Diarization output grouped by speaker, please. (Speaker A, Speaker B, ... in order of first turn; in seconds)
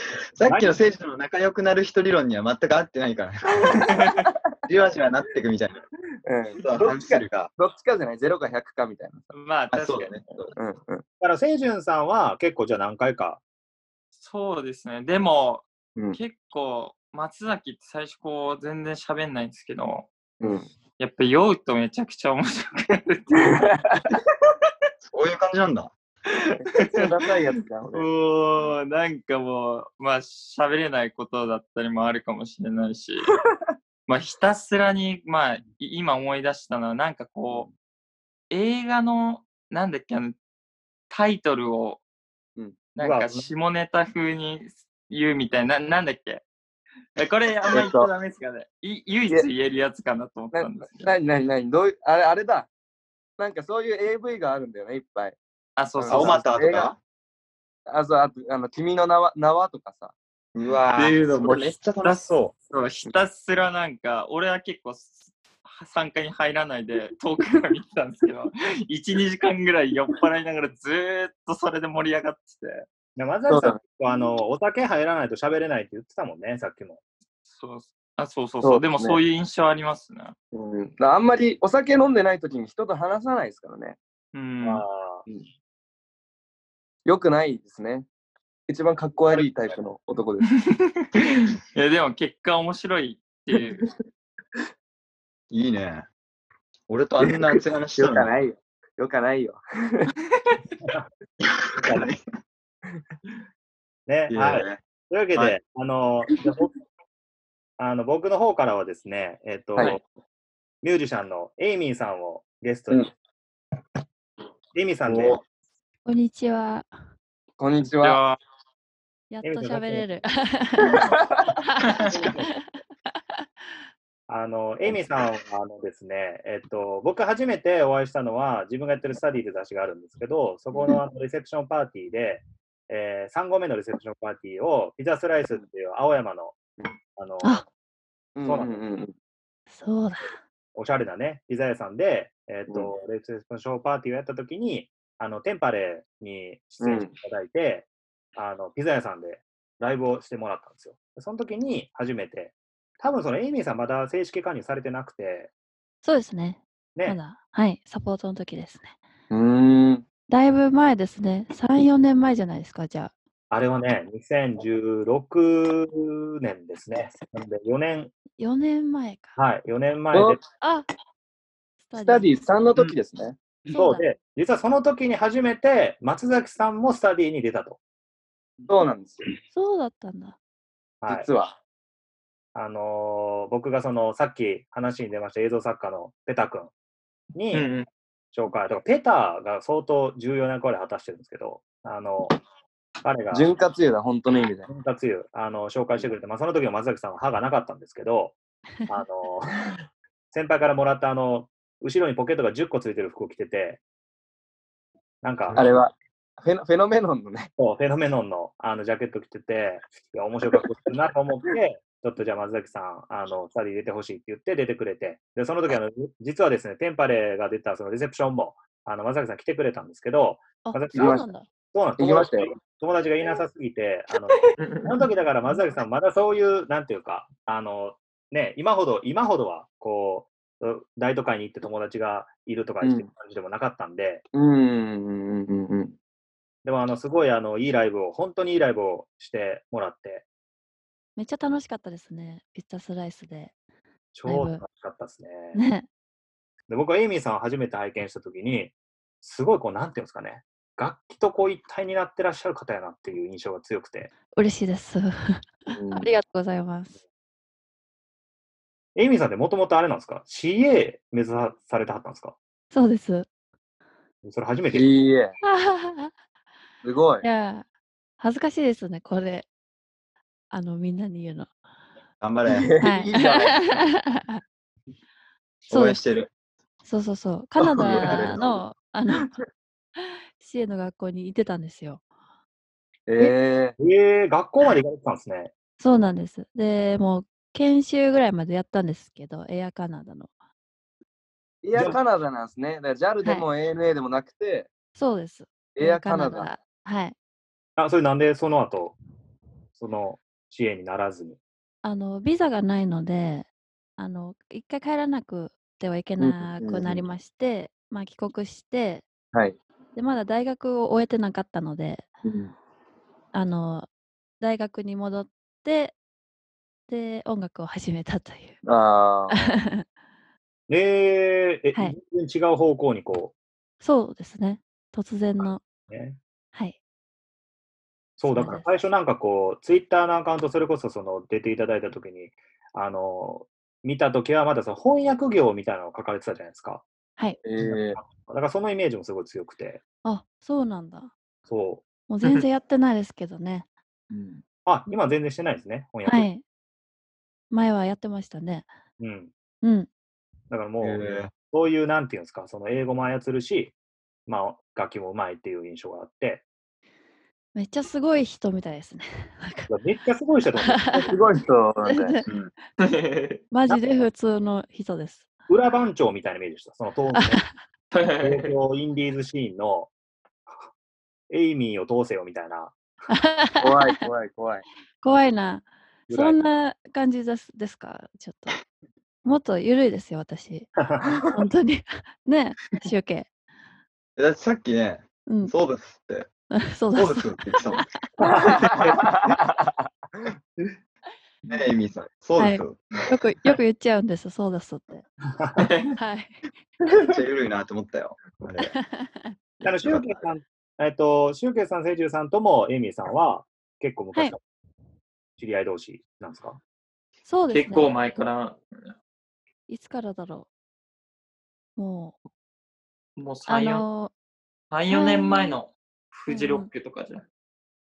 Speaker A: 0.3-4.1, 4.7-5.8, 6.6-7.5, 9.7-10.5, 25.0-25.9, 56.1-57.0, 60.5-62.5, 95.5-96.1, 96.9-98.3, 101.4-102.2, 104.3-104.8, 115.1-115.4, 122.1-122.3, 272.2-272.7, 275.7-276.3, 277.8-278.6, 350.8-351.3, 384.2-386.3, 386.9-387.9, 391.5-392.9, 397.0-398.8, 399.7-400.2
Speaker B: 0.5-0.8, 11.2-13.4, 43.0-43.5, 73.2-77.0, 84.6-85.2, 101.8-102.1, 104.1-106.7, 107.8-110.0, 110.8-113.1, 114.8-115.4, 119.4-120.1, 122.1-122.5, 124.3-136.6, 137.2-137.6, 138.4-138.8, 140.8-155.5, 163.5-168.1, 169.4-170.4, 173.7-177.8, 181.0-181.3, 182.6-186.7, 187.3-187.7, 188.3-192.4, 193.0-193.5, 194.7-199.6, 200.3-203.8, 205.2-205.7, 207.6-234.2, 236.6-240.2, 244.1-245.6, 246.7-254.1, 259.0-262.4, 264.2-264.9, 283.2-285.5, 297.8-298.9, 299.8-301.4, 320.7-323.3, 325.4-326.2, 328.2-336.9, 337.6-339.8, 341.5-341.9, 344.7-346.3, 349.0-349.3, 350.5-353.7, 354.3-356.4, 359.7-361.1, 363.7-364.1, 365.5-367.4, 368.2-369.9, 371.3-372.7, 376.1-376.4, 380.8-381.1, 388.2-388.9, 395.4-395.6, 399.6-404.4, 405.4-406.6
Speaker C: 3.7-4.1, 6.2-9.3, 10.6-11.0, 20.4-20.7, 23.4-24.1, 26.6-28.1, 47.7-48.1, 50.5-52.7, 53.4-55.4, 56.0-56.9, 57.9-60.1, 73.5-73.8, 78.6-79.2, 80.5-84.0, 87.0-88.1, 88.7-90.5, 93.6-93.9, 97.2-100.1, 117.6-118.2, 138.4-139.1, 146.8-147.1, 159.3-160.1, 170.1-170.4, 172.0-173.4, 178.7-179.3, 181.1-181.6, 193.3-194.7, 205.6-207.5, 220.9-221.3, 222.0-222.5, 232.8-233.1, 234.3-235.9, 255.7-256.1, 264.7-265.4, 266.8-267.2, 272.5-273.6, 277.6-278.2, 279.1-279.4, 283.1-283.8, 291.6-294.7, 295.8-296.5, 306.2-307.1, 309.3-309.6, 312.2-312.5, 318.6-319.5, 337.4-338.0, 361.1-362.1, 373.6-374.6, 388.5-389.7
Speaker D: 9.3-10.2, 14.1-20.1, 21.0-23.9, 27.9-33.3, 34.1-37.7, 38.5-40.4, 41.1-42.0, 43.0-46.4, 47.2-51.1, 55.8-56.5, 60.9-72.9, 77.5-80.3, 84.3-84.8, 90.6-93.9, 118.0-118.4, 187.5-187.9, 224.6-224.9, 362.8-363.4, 367.9-368.5, 395.6-395.9, 407.5-408.9, 413.2-413.9, 414.7-417.2
Speaker E: 116.0-116.9, 119.3-122.6, 139.7-140.4, 156.0-159.0, 160.3-163.1, 168.4-169.4, 170.6-170.9, 171.9-172.3, 173.7-174.1, 179.5-180.4, 220.6-221.5, 241.2-243.6, 244.2-244.6, 245.5-245.9, 254.3-257.0, 262.7-263.3, 265.4-266.1, 267.2-267.6, 268.2-269.5, 270.5-271.5, 272.8-274.4, 275.7-276.0, 276.9-279.3, 280.0-282.0, 285.8-290.3, 295.0-297.1, 301.8-309.1, 309.9-312.1, 313.3-313.9, 314.4-316.0, 316.9-318.6, 319.3-319.9, 323.8-325.6, 328.3-328.7, 340.1-341.1, 342.1-343.7, 346.1-346.4, 347.5-348.7, 349.6-349.9, 357.6-359.7, 360.6-361.2, 361.8-362.3, 363.5-365.3, 367.1-367.5, 373.1-374.1, 375.0-378.6, 379.2-383.3, 385.3-385.5, 386.6-387.9, 392.4-395.1, 395.9-396.5, 398.6-399.4, 407.2-407.9, 409.7-410.5, 411.8-412.2, 413.5-414.1, 414.9-415.6, 416.3-416.7